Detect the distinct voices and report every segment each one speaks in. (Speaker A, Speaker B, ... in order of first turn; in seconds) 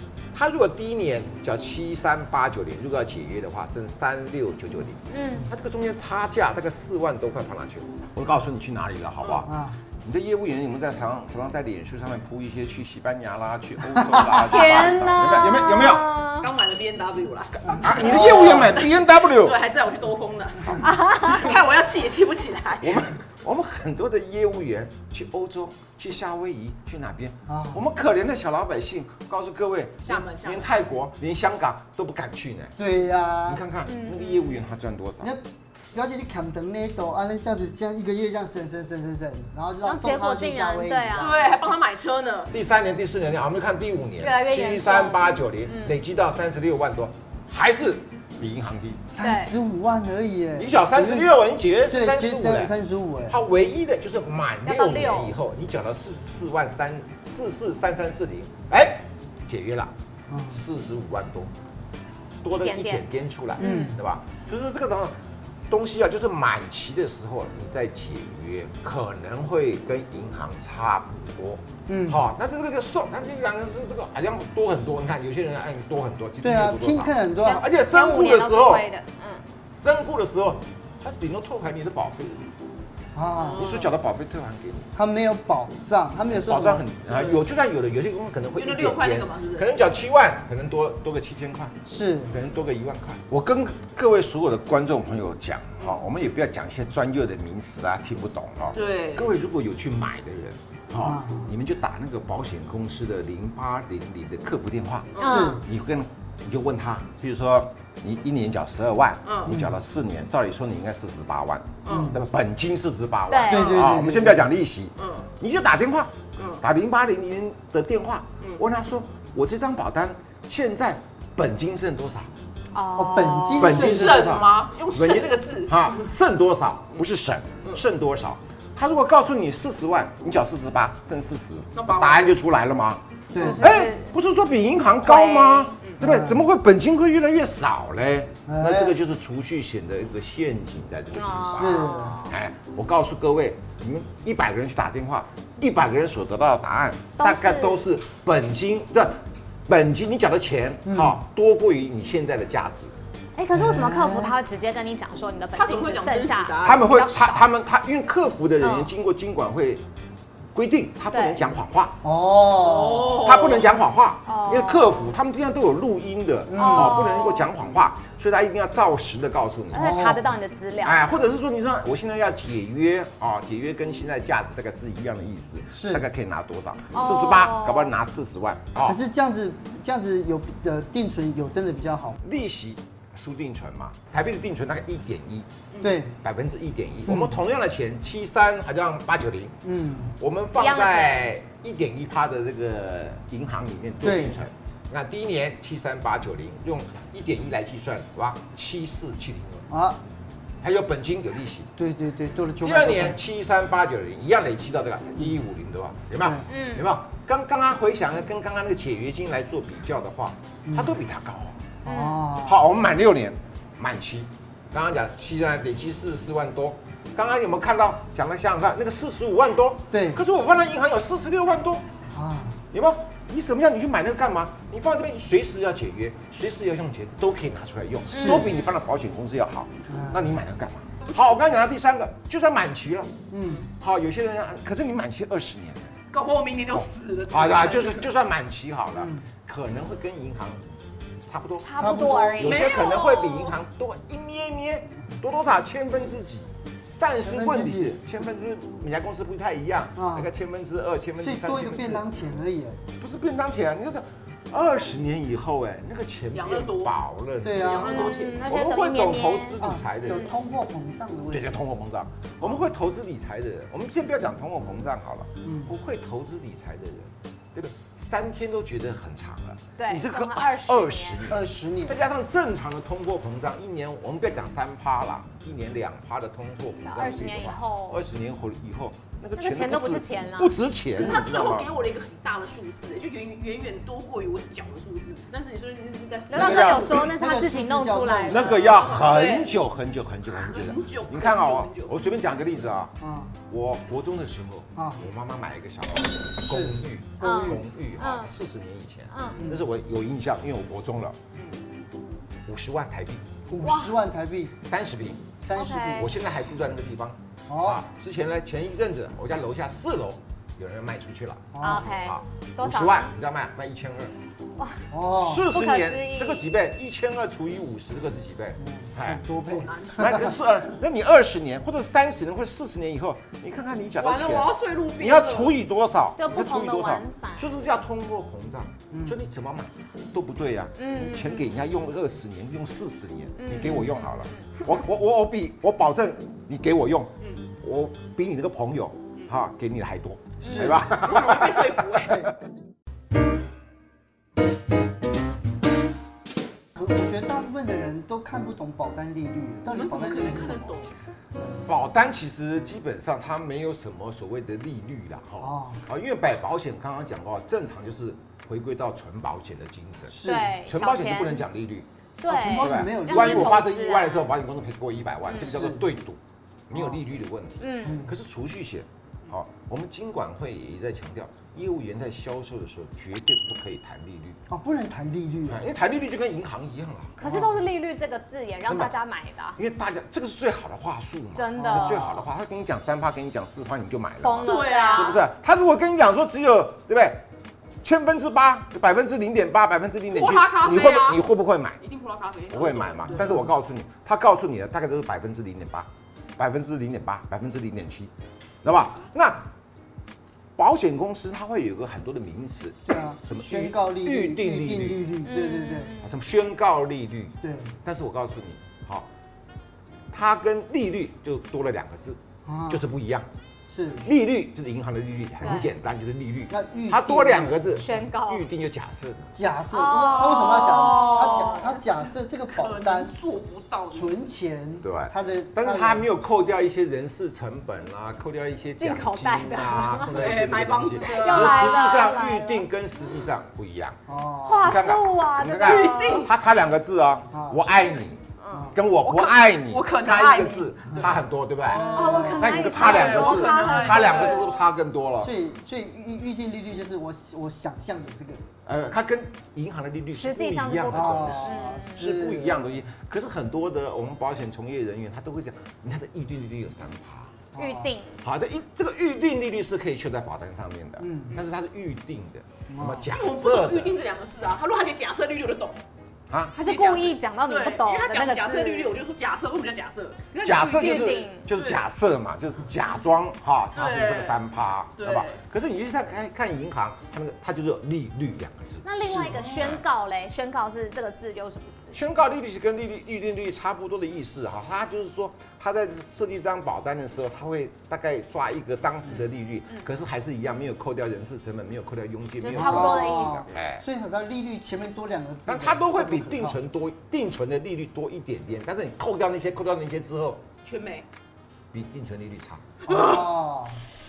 Speaker A: 0.3-16.1, 17.8-19.6, 20.6-21.2, 22.8-32.8, 33.5-35.3, 42.5-49.0, 50.6-52.7, 53.3-59.9, 60.5-61.5, 62.4-78.9, 79.7-82.4, 83.5-84.9, 86.3-91.8, 92.3-122.3, 123.5-152.9, 156.6-159.8, 160.5-162.0, 163.2-170.1, 170.8-179.0, 182.2-185.5, 186.2-189.6, 190.2-199.7, 200.6-201.7, 202.6-211.7, 212.4-221.9, 222.7-233.1, 233.8-235.9, 236.7-240.6, 241.3-252.1, 253.0-260.3, 261.3-281.7, 286.3-287.0, 288.2-301.2, 302.5-303.3, 304.6-305.3, 305.9-314.1, 315.2-319.2, 319.9-342.1, 351.7-374.4, 375.5-377.2, 378.7-378.9, 379.6-387.2, 387.8-391.8, 392.5-399.5, 400.6-405.1, 406.0-409.1, 410.1-413.3, 414.0-419.4, 424.8-434.0, 434.6-445.4, 448.6-457.4, 458.2-464.0, 466.3-466.6, 470.4-479.8, 481.9-493.8, 495.5-500.5, 501.7-502.6
Speaker B: 5.1-5.5, 14.2-16.5, 20.9-21.4, 33.9-34.6, 39.8-41.3, 44.2-46.0, 49.2-49.5, 54.6-55.4, 62.6-63.0, 63.6-63.9, 77.4-79.4, 105.2-105.6, 113.3-113.8, 122.7-123.8, 133.4-134.1, 135.0-135.8, 141.2-142.3, 147.2-147.8, 153.4-157.5, 158.6-158.9, 161.1-161.5, 164.3-165.1, 166.6-167.4, 169.7-171.1, 176.9-177.9, 190.6-191.3, 206.5-206.9, 211.9-212.2, 228.1-228.6, 241.6-242.7, 257.9-260.3, 269.8-271.3, 276.8-278.0, 279.4-280.5, 286.3-288.7, 297.2-298.3, 299.1-299.4, 303.6-304.0, 305.6-306.1, 311.6-313.1, 314.6-314.8, 315.4-316.4, 326.2-327.5, 330.8-331.4, 333.4-334.4, 340.4-340.8, 360.2-361.5, 362.2-364.3, 365.2-365.7, 367.6-368.0, 377.2-379.6, 381.4-382.2, 384.2-385.2, 405.2-406.1, 415.4-415.7, 417.8-418.4, 419.7-421.8, 428.8-430.4, 431.0-432.6, 434.4-436.3, 441.9-444.4, 450.1-452.1, 457.6-458.2, 466.6-469.0, 470.7-471.5, 478.9-482.0, 492.4-493.6
Speaker C: 9.4-9.8, 13.9-14.4, 27.5-27.9, 32.8-33.6, 35.2-41.4, 49.1-51.3, 51.9-53.4, 60.3-60.6, 63.6-64.0, 71.9-72.2, 76.4-77.7, 83.2-83.7, 85.0-86.9, 91.9-92.3, 101.0-101.5, 105.2-105.7, 109.5-109.8, 111.9-112.2, 113.5-114.5, 123.0-124.3, 133.3-133.7, 136.0-136.4, 138.5-139.0, 141.5-142.2, 150.9-151.2, 153.5-154.4, 162.0-163.4, 166.5-167.1, 169.7-170.2, 175.7-176.1, 178.8-182.2, 185.8-186.1, 187.1-187.4, 189.6-190.2, 194.0-194.4, 199.7-200.0, 201.8-203.2, 206.2-206.4, 210.7-210.9, 211.8-212.6, 219.9-220.2, 222.1-222.6, 228.1-228.5, 229.9-230.4, 233.3-233.7, 239.0-239.3, 241.8-242.5, 247.1-248.0, 250.0-250.3, 251.2-252.8, 257.4-258.1, 259.6-261.5, 265.4-265.7, 271.3-272.0, 286.4-288.8, 293.0-293.4, 294.8-295.0, 296.4-297.6, 303.5-304.6, 305.4-306.1, 307.5-307.8, 311.5-312.1, 314.9-315.5, 318.6-320.4, 328.9-329.2, 340.4-341.0, 342.0-342.5, 346.8-350.8, 355.4-355.8, 360.1-360.6, 362.3-363.6, 365.4-365.9, 367.8-368.1, 374.5-375.6, 377.2-377.6, 381.6-382.1, 393.1-393.5, 402.9-405.9, 407.4-407.8, 412.5-412.8, 413.7-414.1, 416.5-417.8, 419.4-423.1, 423.9-426.1, 434.1-434.8, 437.3-437.8, 438.5-438.8, 441.7-442.6, 445.2-448.4, 450.9-452.9, 457.5-457.9, 461.0-461.4, 462.7-463.1, 492.5-496.6, 502.9-503.8
Speaker D: 16.4-23.1, 30.0-30.8, 41.2-42.5, 83.4-83.9, 87.1-87.4, 88.6-89.7, 98.7-99.3, 105.1-105.5, 109.2-109.6, 111.8-112.2, 115.0-115.3, 116.4-116.6, 123.7-126.1, 131.7-132.3, 155.6-157.0, 162.6-163.7, 167.1-167.4, 185.7-186.0, 236.1-238.1, 242.4-243.6, 256.3-257.0, 257.5-258.6, 280.9-286.9, 288.6-289.6, 290.3-291.9, 301.4-301.6, 319.4-320.3, 324.0-325.6, 340.8-342.2, 349.7-350.9, 384.4-385.2, 390.1-391.3, 391.8-393.3, 420.2-421.8, 422.5-424.2, 429.9-432.1, 435.4-436.3, 438.4-444.5, 463.1-465.8, 466.6-471.8, 473.7-474.4, 475.0-475.4, 479.4-479.6, 500.6-501.1, 502.9-503.3